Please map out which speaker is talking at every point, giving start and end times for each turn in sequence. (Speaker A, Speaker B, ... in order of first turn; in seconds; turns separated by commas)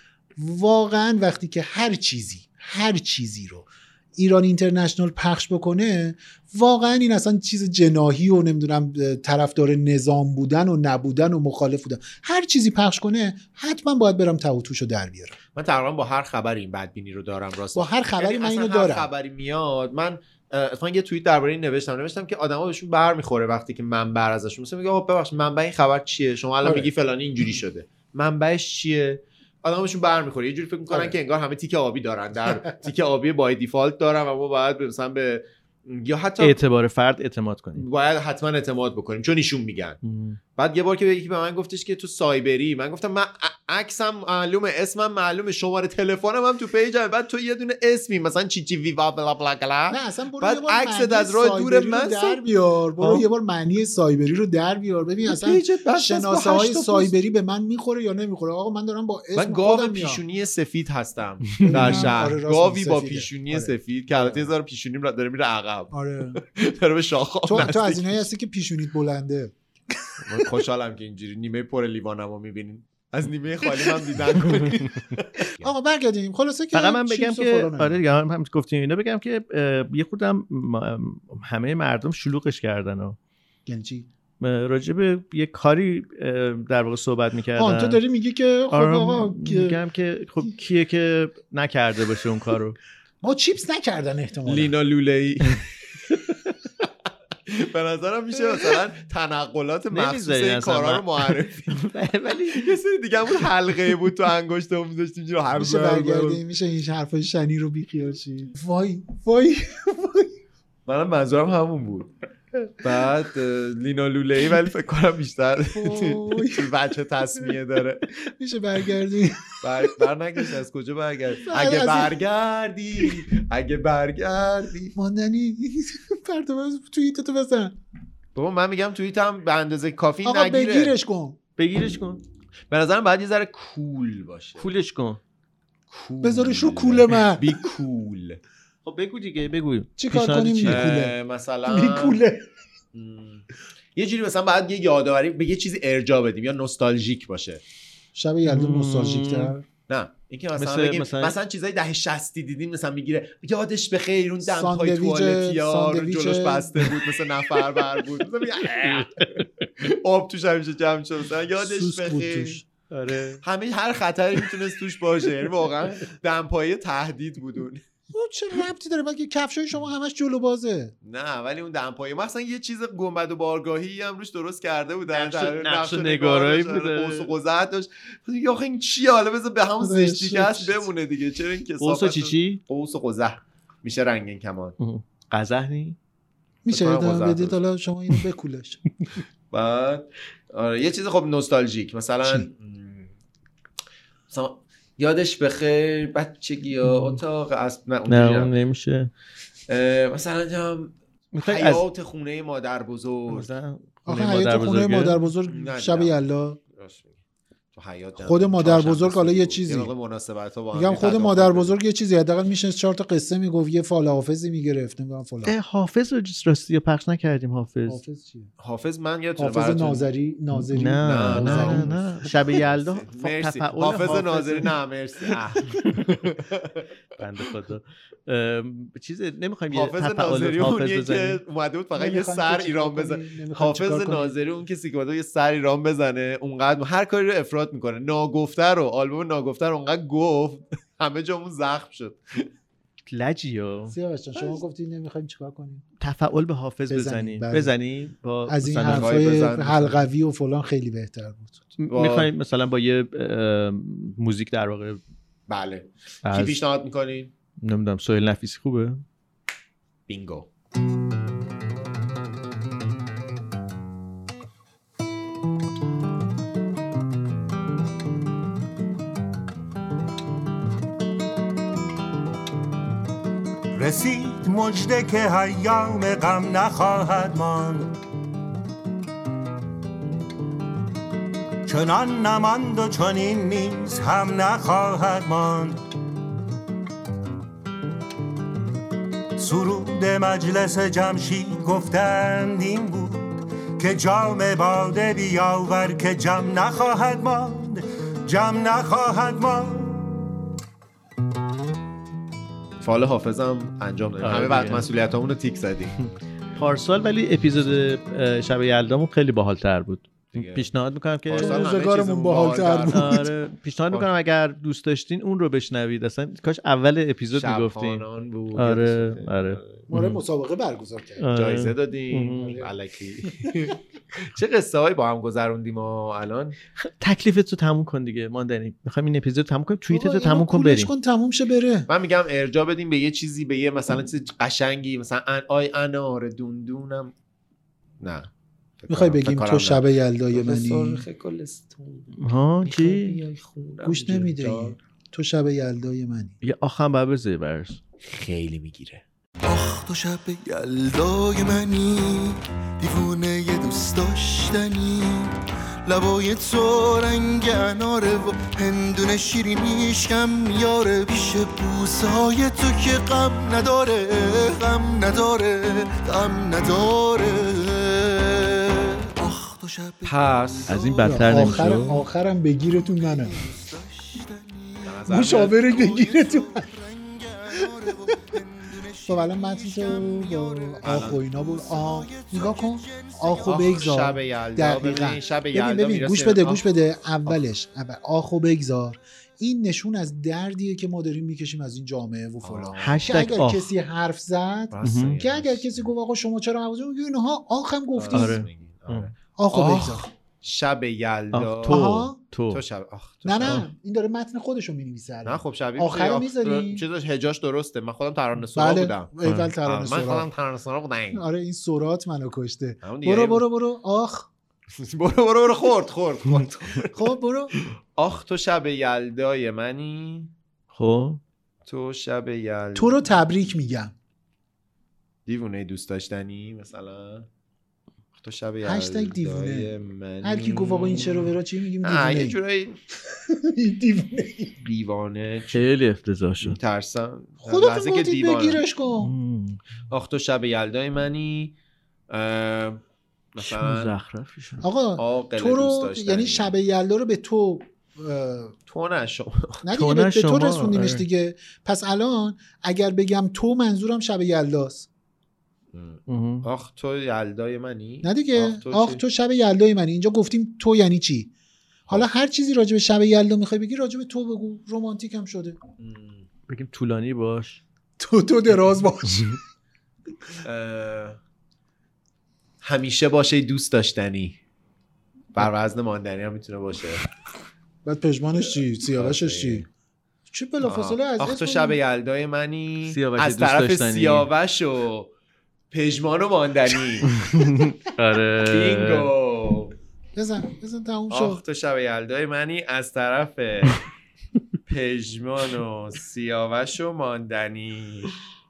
Speaker A: 0.4-15.4, Speaker B: 15.6-36.6, Speaker A: 17.7-19.1, Speaker A: 26.6-26.9, Speaker C: 36.4-37.8, Speaker B: 37.8-40.0, Speaker C: 40.0-40.4, Speaker B: 40.6-52.4, Speaker A: 49.9-60.2, Speaker B: 55.2-57.1, Speaker B: 59.4-68.3, Speaker A: 61.7-64.5, Speaker A: 65.9-66.4, Speaker A: 67.5-70.2, Speaker B: 70.2-75.7, Speaker A: 75.6-78.0, Speaker C: 76.7-83.2, Speaker A: 83.7-84.1, Speaker C: 84.4-88.0, Speaker A: 87.5-89.8, Speaker C: 88.7-92.8, Speaker A: 93.2-94.7, Speaker B: 94.5-95.7, Speaker B: 97.5-101.8, Speaker C: 99.9-102.7, Speaker B: 102.5-106.4, Speaker A: 105.5-110.3, Speaker B: 110.9-112.1, Speaker B: 112.8-118.1, Speaker A: 115.7-116.7, Speaker A: 118.2-120.0, Speaker B: 119.6-125.0, Speaker A: 121.5-122.2, Speaker A: 125.0-127.8, Speaker B: 128.3-130.9, Speaker A: 130.2-131.4, Speaker C: 131.6-132.2, Speaker B: 132.7-134.7, Speaker C: 134.6-135.2, Speaker B: 135.9-138.4, Speaker A: 136.2-137.6, Speaker C: 138.8-140.9, Speaker A: 140.0-142.4, Speaker B: 140.7-142.2, Speaker B: 142.9-143.4, Speaker B: 144.0-147.6, Speaker A: 148.2-149.7, Speaker C: 148.5-149.5, Speaker B: 149.9-162.6, Speaker C: 150.6-151.4, Speaker A: 154.4-156.9, Speaker C: 158.8-159.6, Speaker A: 161.6-162.6, Speaker C: 162.9-163.4, Speaker B: 163.4-167.8, Speaker A: 168.1-170.9, Speaker B: 171.0-184.8, Speaker C: 175.1-177.3, Speaker A: 179.8-180.9, Speaker C: 181.8-182.6, Speaker C: 184.8-186.0, Speaker A: 186.7-188.8, Speaker B: 186.7-187.6, Speaker B: 189.5-193.1, Speaker B: 194.3-198.5, Speaker C: 196.9-197.2, Speaker C: 198.1-199.1, Speaker B: 199.7-203.5, Speaker C: 201.3-201.8, Speaker C: 203.3-205.2, Speaker A: 204.1-206.6, Speaker B: 205.5-206.2, Speaker B: 206.7-207.2, Speaker B: 207.7-211.7, Speaker A: 208.2-209.9, Speaker A: 210.7-215.6, Speaker C: 215.4-218.0, Speaker A: 217.9-218.5, Speaker B: 218.6-220.1, Speaker A: 219.4-222.3, Speaker C: 220.5-224.7, Speaker B: 221.0-226.9, Speaker C: 227.2-231.4, Speaker B: 229.7-242.5, Speaker A: 231.9-234.3, Speaker C: 243.1-244.0, Speaker A: 243.9-245.8, Speaker C: 246.0-249.2, Speaker A: 246.9-247.7, Speaker A: 248.5-251.6, Speaker B: 248.8-249.9, Speaker C: 251.8-255.0, Speaker B: 251.9-252.3, Speaker B: 255.5-257.3, Speaker C: 256.2-256.6, Speaker C: 257.6-259.0, Speaker B: 260.1-260.5, Speaker D: 273.8-277.9, Speaker D: 281.7-285.8, Speaker D: 289.4-300.1, Speaker B: 302.8-305.9, Speaker C: 304.2-304.9, Speaker C: 306.6-311.7, Speaker B: 310.3-310.7, Speaker B: 311.3-313.1, Speaker A: 311.4-313.3, Speaker C: 312.9-320.2, Speaker B: 317.3-319.9, Speaker A: 319.9-321.2, Speaker C: 321.2-322.6, Speaker B: 321.3-326.6, Speaker A: 322.4-322.7, Speaker C: 326.9-330.9, Speaker A: 329.9-331.9, Speaker B: 331.9-337.1, Speaker B: 338.0-338.3, Speaker B: 338.8-344.8, Speaker A: 338.9-341.0, Speaker C: 342.2-343.2, Speaker A: 343.8-346.4, Speaker C: 346.4-347.8, Speaker B: 348.0-349.0, Speaker E: 349.4-372.0, Speaker B: 370.1-370.7, Speaker C: 370.7-372.1, Speaker A: 371.1-373.4, Speaker E: 372.7-384.0, Speaker B: 374.9-375.6, Speaker A: 375.1-376.6, Speaker A: 377.9-378.1, Speaker A: 379.1-398.4, Speaker B: 380.8-381.2, Speaker B: 383.4-386.6, Speaker B: 392.4-393.2, Speaker C: 392.8-393.7, Speaker B: 394.7-395.9, Speaker C: 394.8-395.2, Speaker B: 398.0-401.9, Speaker C: 398.1-399.1, Speaker A: 399.4-400.1, Speaker C: 401.3-402.6, Speaker A: 401.6-402.2, Speaker B: 402.5-403.7, Speaker A: 403.2-406.9, Speaker B: 405.2-409.1, Speaker A: 408.5-410.3, Speaker C: 409.2-409.5, Speaker B: 409.6-411.2, Speaker A: 411.1-414.3, Speaker B: 412.8-413.5, Speaker B: 414.8-417.1, Speaker A: 416.9-417.5, Speaker B: 418.0-420.3, Speaker C: 420.7-421.2, Speaker B: 421.7-423.2, Speaker A: 422.8-423.9, Speaker B: 425.3-427.3, Speaker B: 428.2-431.3, Speaker A: 428.6-429.7, Speaker A: 430.2-432.4, Speaker B: 431.8-432.8, Speaker A: 433.1-434.6, Speaker B: 434.6-435.6, Speaker C: 435.5-436.6, Speaker B: 436.4-438.6, Speaker A: 437.5-439.1, Speaker C: 439.0-439.6, Speaker B: 439.9-441.5, Speaker B: 442.1-442.8, Speaker B: 443.4-443.9, Speaker C: 443.4-444.6, Speaker A: 444.6-448.5, Speaker B: 445.0-446.5, Speaker B: 448.7-449.6, Speaker A: 449.6-454.9, Speaker C: 449.7-451.1, Speaker B: 455.7-459.0, Speaker C: 456.1-456.5, Speaker A: 458.0-461.3, Speaker A: 461.9-465.6, Speaker B: 465.8-466.3, Speaker C: 466.5-467.6, Speaker A: 468.0-469.4, Speaker B: 470.4-471.2, Speaker B: 472.6-474.4, Speaker B: 475.4-477.0, Speaker A: 477.9-479.7, Speaker B: 478.9-479.7, Speaker A: 480.3-481.8, Speaker B: 480.6-485.1, Speaker C: 482.9-484.3, Speaker B: 485.7-487.1, Speaker C: 487.1-489.1, Speaker B: 488.4-489.7, Speaker A: 490.1-491.4, Speaker B: 491.1-493.8, Speaker B: 494.7-498.2